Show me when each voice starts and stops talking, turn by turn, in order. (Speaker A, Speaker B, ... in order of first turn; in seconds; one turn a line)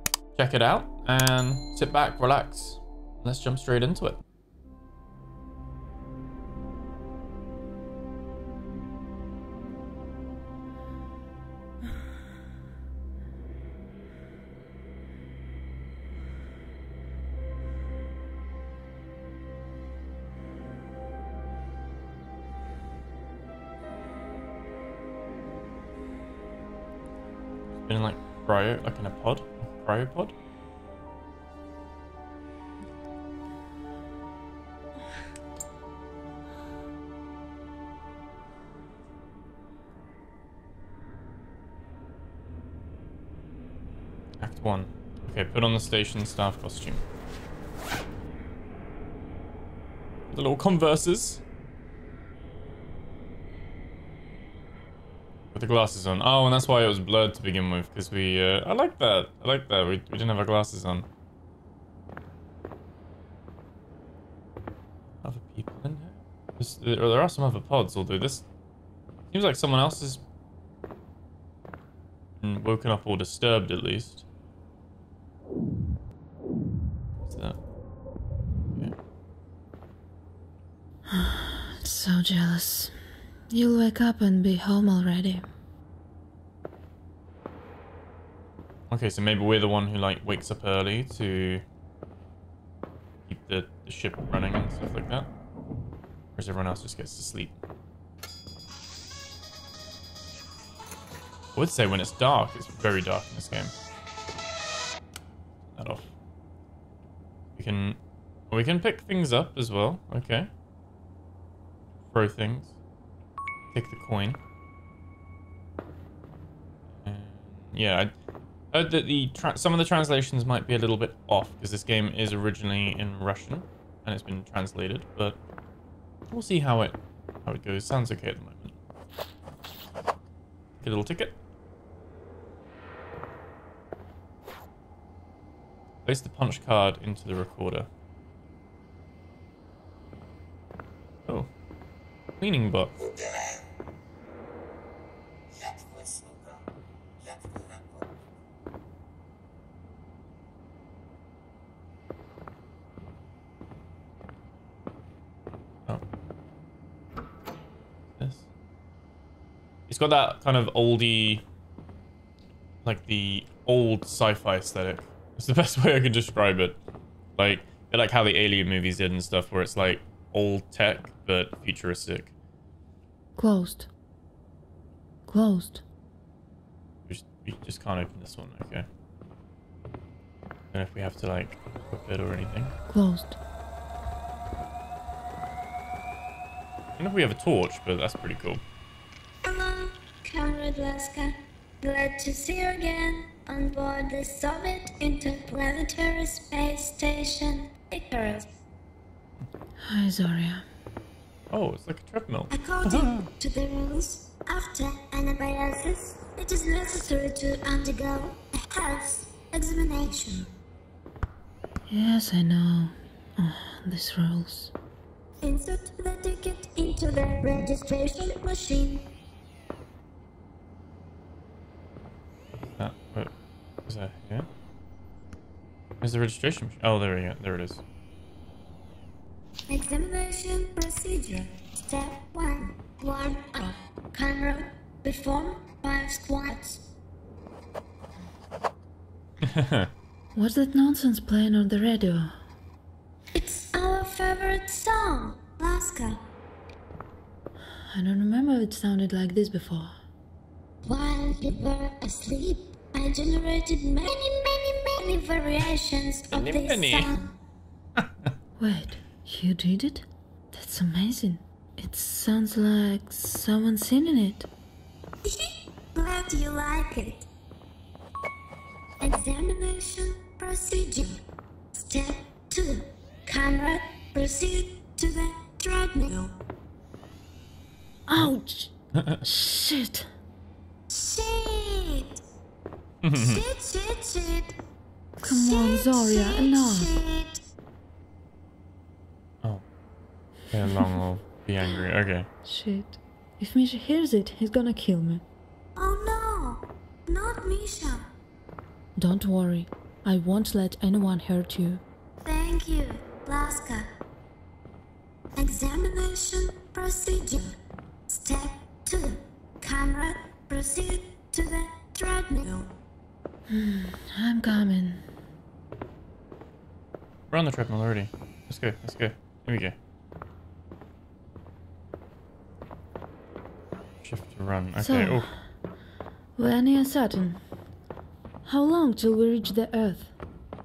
Speaker A: 0.3-4.2
Speaker A: 27.8-30.3
Speaker A: 44.4-47.0
Speaker A: 50.3-51.4
Speaker A: 55.5-61.0
Speaker A: 65.2-68.4
Speaker A: 69.3-70.2
Speaker A: 72.4-74.2
Speaker A: 77.2-77.6
Speaker B: 81.1-83.0
Speaker B: 83.5-85.5
Speaker A: 88.9-91.6
Speaker A: 93.3-95.3
Speaker A: 96.3-97.5
Speaker A: 101.5-103.7
Speaker A: 105.7-106.1
Speaker A: 107.5-108.0
Speaker A: 108.5-110.5
Speaker A: 112.1-112.7
Speaker A: 113.7-114.4
Speaker A: 117.0-118.1
Speaker A: 118.7-125.4
Speaker A: 126.3-128.8
Speaker A: 130.8-131.3
Speaker A: 136.0-137.9
Speaker A: 142.4-142.9
Speaker A: 158.2-158.4
Speaker A: 159.9-161.4
Speaker A: 162.8-166.8
Speaker A: 167.3-172.3
Speaker B: 173.3-173.9
Speaker B: 175.3-175.8
Speaker A: 177.1-178.9
Speaker A: 180.7-182.7
Speaker B: 182.9-183.4
Speaker A: 187.0-188.6
Speaker C: 189.4-198.5
Speaker B: 199.8-200.7
Speaker A: 201.5-203.3
Speaker C: 202.5-210.5
Speaker B: 211.9-214.7
Speaker C: 215.4-219.1
Speaker A: 222.7-223.3
Speaker A: 223.8-224.5
Speaker A: 226.0-227.8
Speaker C: 229.7-236.8
Speaker A: 239.4-239.9
Speaker B: 240.3-242.3
Speaker C: 243.3-246.2
Speaker B: 247.9-249.9
Speaker C: 250.8-257.3
Speaker A: 256.3-257.1
Speaker B: 258.6-264.5
Speaker C: 265.2-267.3
Speaker C: 269.0-271.2
Speaker C: 271.7-276.3
Speaker B: 278.1-280.1
Speaker A: 278.9-279.2
Speaker C: 280.9-282.2
Speaker A: 283.0-283.4
Speaker C: 283.1-284.5
Speaker C: 285.2-287.4
Speaker B: 285.2-286.9
Speaker A: 290.5-292.3
Speaker B: 292.4-295.2
Speaker C: 295.8-298.1
Speaker B: 298.9-301.8
Speaker C: 302.2-303.9
Speaker C: 305.4-307.6
Speaker C: 308.1-312.7
Speaker B: 313.5-315.1
Speaker A: 317.3-319.8
Speaker A: 324.0-325.3
Speaker B: 324.7-325.3
Speaker B: 326.4-327.4
Speaker B: 328.4-330.1